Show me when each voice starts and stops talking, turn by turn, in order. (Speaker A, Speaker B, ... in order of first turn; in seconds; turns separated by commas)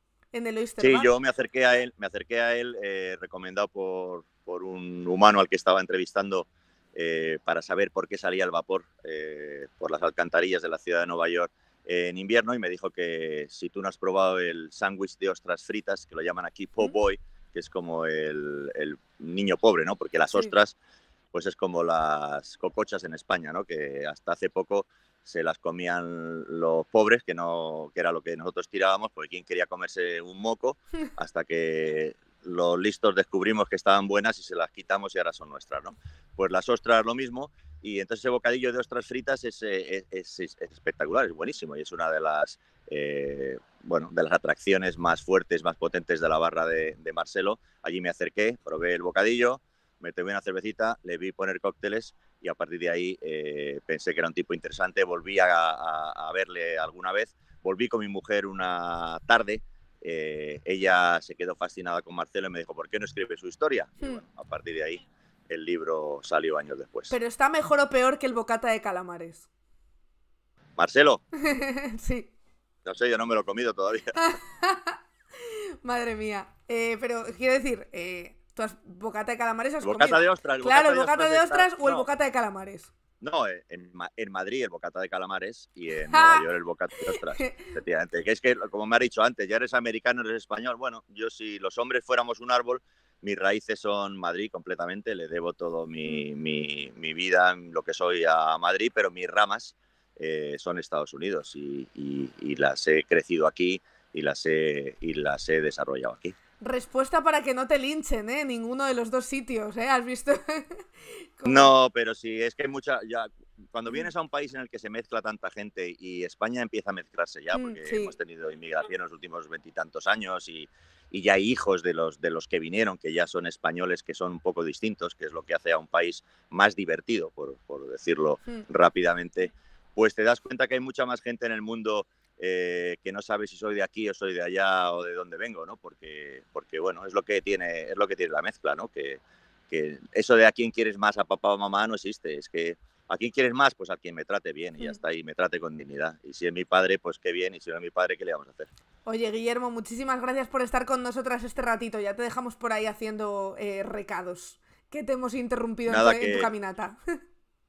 Speaker A: 0.3-1.1, Speaker B: 0.8-20.8, Speaker B: 21.3-67.1, Speaker A: 67.1-69.5, Speaker B: 70.8-71.2, Speaker A: 71.4-72.3, Speaker B: 72.8-74.2, Speaker A: 74.2-82.9, Speaker B: 79.8-82.1, Speaker B: 83.2-106.3, Speaker A: 86.0-86.5, Speaker A: 87.2-87.7, Speaker A: 106.6-111.7, Speaker B: 111.5-148.7, Speaker A: 117.5-118.1, Speaker A: 149.1-157.0, Speaker B: 155.9-156.5